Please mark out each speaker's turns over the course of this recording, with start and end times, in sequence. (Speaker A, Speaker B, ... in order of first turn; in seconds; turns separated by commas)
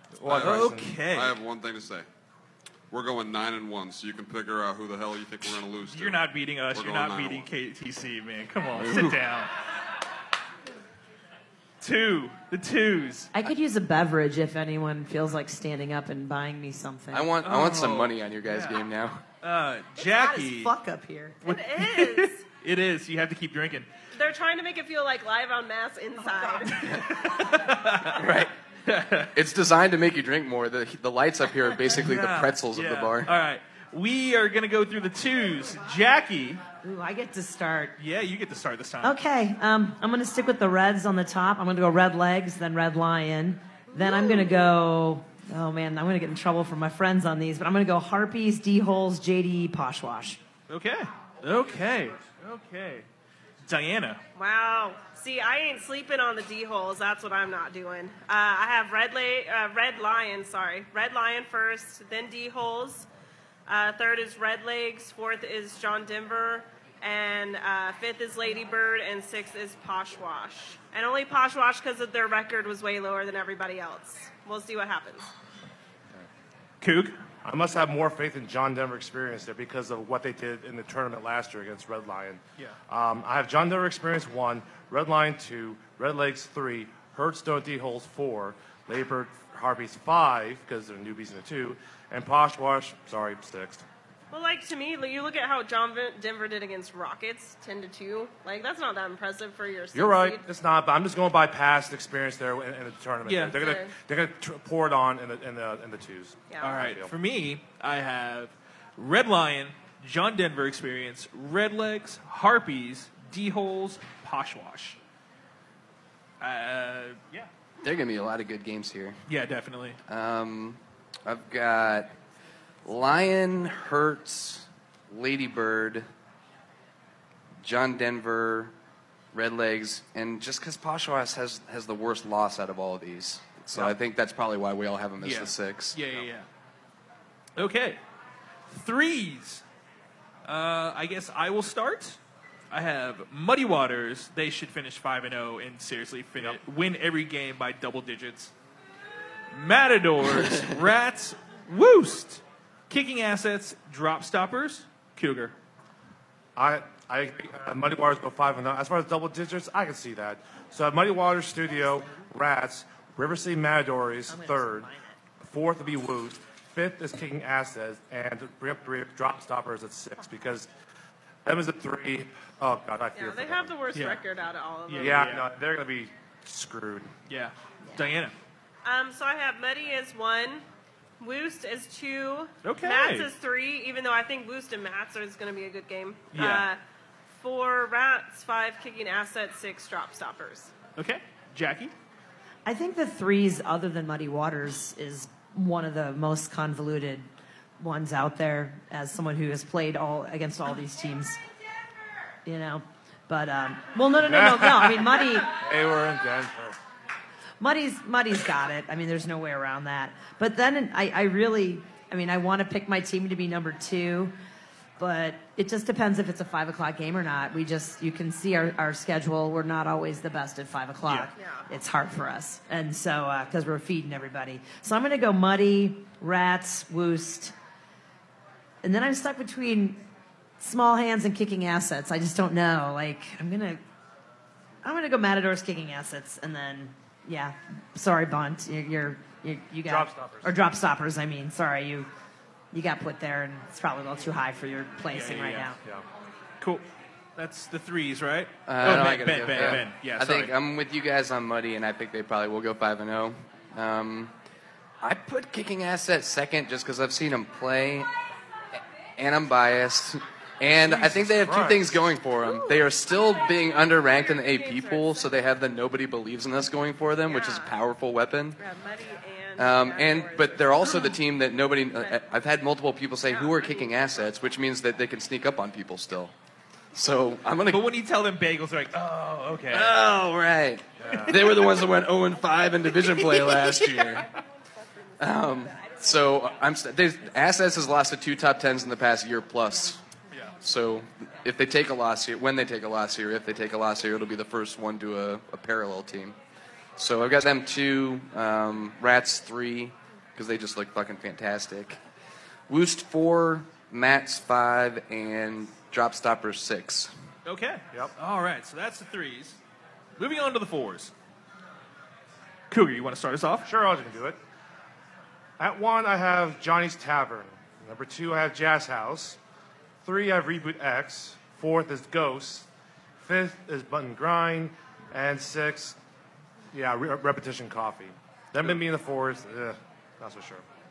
Speaker A: 0.2-0.9, Speaker B: 0.3-2.0, Speaker C: 0.3-1.3, Speaker B: 2.9-7.5, Speaker C: 5.8-9.5, Speaker D: 8.8-9.2, Speaker C: 11.8-13.3, Speaker E: 13.3-17.3, Speaker D: 17.1-19.2, Speaker C: 17.4-18.8, Speaker C: 19.4-20.7, Speaker E: 20.0-21.4, Speaker F: 21.4-22.4, Speaker C: 21.4-23.9, Speaker F: 24.1-26.8, Speaker C: 26.6-28.2, Speaker D: 28.1-28.5, Speaker C: 28.9-29.3, Speaker D: 29.3-33.3, Speaker C: 31.9-36.6, Speaker E: 36.8-37.9, Speaker C: 38.0-39.1, Speaker E: 39.0-50.4, Speaker F: 43.9-44.3, Speaker C: 50.7-53.0, Speaker C: 53.6-54.2, Speaker F: 54.3-63.1, Speaker F: 63.7-75.3, Speaker C: 76.8-77.2, Speaker A: 77.4-93.8, Speaker F: 94.3-100.4, Speaker A: 99.9-107.1, Speaker C: 103.2-103.6, Speaker F: 103.5-103.9, Speaker C: 106.6-115.0, Speaker C: 116.4-117.5, Speaker D: 117.8-119.2, Speaker C: 119.3-120.0, Speaker D: 120.1-122.1, Speaker D: 122.8-126.0, Speaker D: 127.6-128.7, Speaker D: 129.3-136.0, Speaker C: 135.2-136.4, Speaker C: 137.6-138.0, Speaker C: 138.7-139.6, Speaker C: 140.4-142.2, Speaker C: 142.7-148.5, Speaker C: 149.5-155.5, Speaker A: 156.6-164.9, Speaker E: 164.3-165.1, Speaker A: 165.4-170.7, Speaker A: 171.4-173.8, Speaker F: 173.1-175.3, Speaker C: 173.9-174.2, Speaker C: 174.9-175.4, Speaker A: 175.0-177.1, Speaker C: 177.3-178.3, Speaker F: 178.8-180.6, Speaker F: 181.2-186.8, Speaker C: 182.6-183.3, Speaker C: 186.3-186.7, Speaker F: 187.3-190.7, Speaker C: 191.0-191.9, Speaker E: 192.7-197.3, Speaker E: 197.8-201.4, Speaker E: 202.4-205.5, Speaker A: 204.2-206.8, Speaker E: 207.6-214.3, Speaker E: 215.0-227.5, Speaker F: 221.3-221.7, Speaker E: 228.8-230.0, Speaker E: 230.6-233.8, Speaker E: 234.8-242.1, Speaker A: 239.8-240.5, Speaker E: 242.7-245.8, Speaker C: 245.1-245.7, Speaker C: 247.3-250.5, Speaker D: 248.7-254.3, Speaker D: 255.0-258.1, Speaker D: 259.2-268.6, Speaker A: 260.8-262.0, Speaker F: 262.4-265.5, Speaker F: 267.2-267.8, Speaker F: 268.6-271.1, Speaker D: 269.6-276.3, Speaker F: 271.9-272.3, Speaker F: 273.2-274.1, Speaker D: 276.9-277.8, Speaker C: 277.7-280.0, Speaker D: 279.7-284.2, Speaker A: 281.0-281.3, Speaker D: 285.2-290.0, Speaker D: 290.6-296.4, Speaker D: 297.0-302.0, Speaker D: 302.7-307.1, Speaker C: 307.4-309.6, Speaker C: 310.2-311.1, Speaker C: 312.7-313.7, Speaker A: 313.6-314.4, Speaker A: 315.6-319.4, Speaker A: 320.0-322.7, Speaker A: 323.2-326.0, Speaker A: 326.7-330.6